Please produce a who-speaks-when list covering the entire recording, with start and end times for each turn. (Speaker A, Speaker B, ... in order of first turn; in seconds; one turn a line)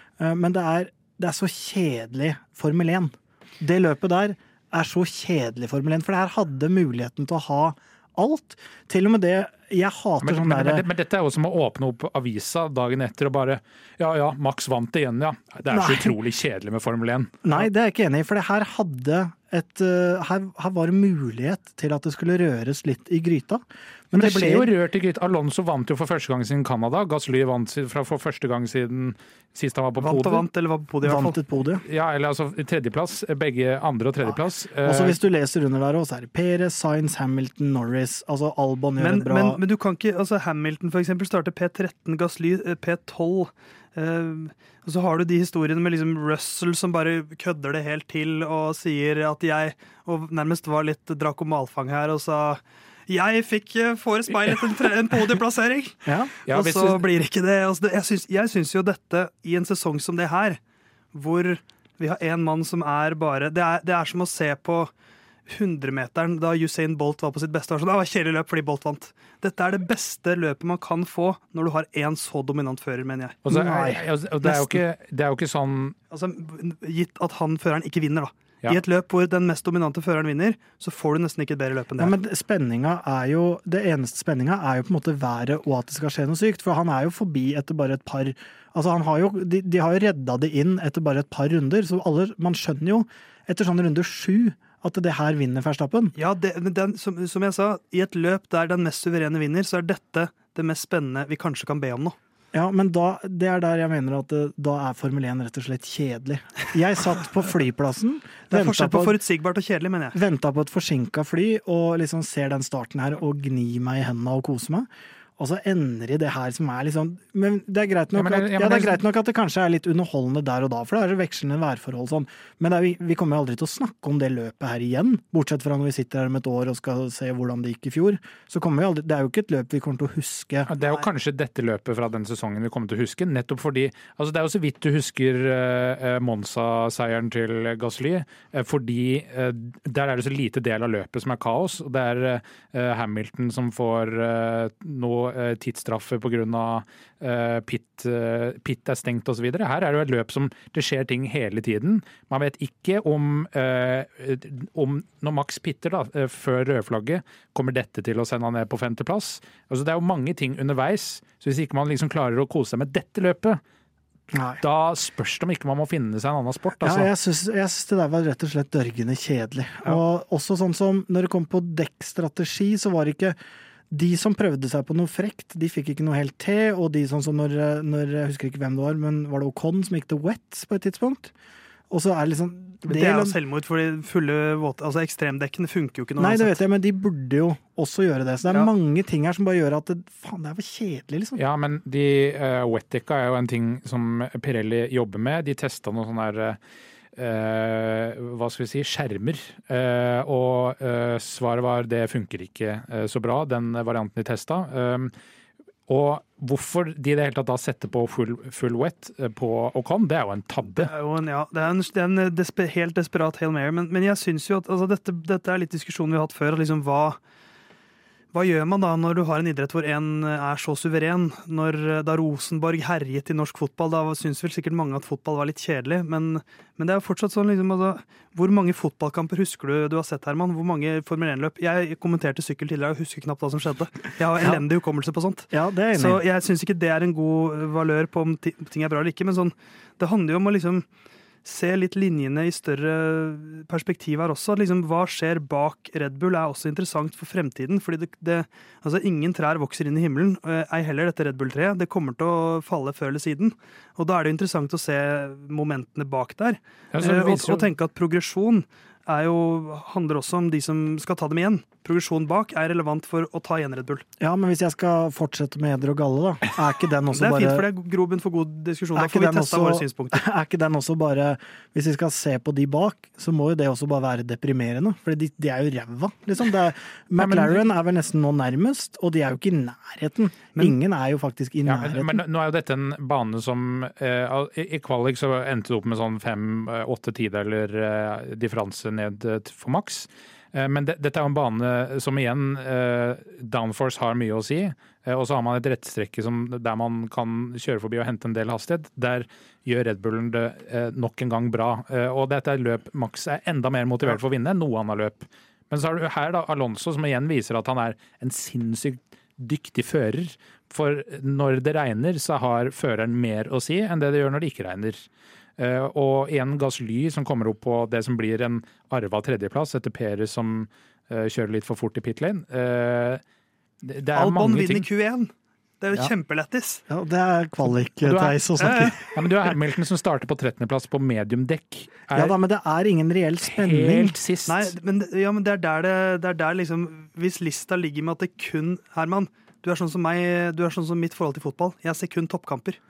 Speaker A: 0.2-10.8
Speaker B: 10.2-17.6
Speaker A: 15.7-16.1
Speaker A: 17.4-24.7
Speaker B: 24.1-30.4
Speaker C: 30.0-31.4
Speaker A: 31.0-31.8
Speaker B: 31.8-35.1
Speaker A: 34.3-39.6
Speaker C: 39.0-60.6
Speaker A: 56.0-56.3
Speaker B: 56.5-57.0
Speaker C: 61.1-64.9
Speaker C: 65.5-73.4
Speaker B: 73.5-76.0
Speaker A: 73.5-74.8
Speaker C: 76.1-82.1
Speaker A: 82.0-96.1
Speaker C: 96.2-102.2
Speaker A: 102.5-109.2
Speaker C: 108.5-110.2
Speaker A: 110.1-130.7
Speaker B: 118.1-119.0
Speaker B: 130.7-163.6
Speaker A: 164.3-164.6
Speaker B: 164.6-167.1
Speaker A: 166.8-173.3
Speaker A: 173.9-181.3
Speaker A: 181.9-183.4
Speaker C: 182.8-186.6
Speaker A: 186.2-191.4
Speaker B: 191.4-196.6
Speaker B: 197.1-205.1
Speaker B: 205.9-210.9
Speaker C: 210.7-217.2
Speaker C: 218.3-240.8
Speaker A: 235.5-236.2
Speaker C: 241.4-264.0
Speaker B: 256.9-257.7
Speaker A: 264.2-267.7
Speaker C: 267.1-270.2
Speaker A: 268.9-282.2
Speaker B: 277.2-277.6
Speaker B: 281.6-315.0
Speaker B: 315.6-323.2
Speaker B: 323.8-324.9
Speaker C: 324.1-326.8
Speaker A: 326.9-329.1
Speaker B: 328.0-332.4
Speaker C: 328.6-329.0
Speaker A: 332.1-334.2
Speaker B: 333.4-334.7
Speaker C: 334.5-342.8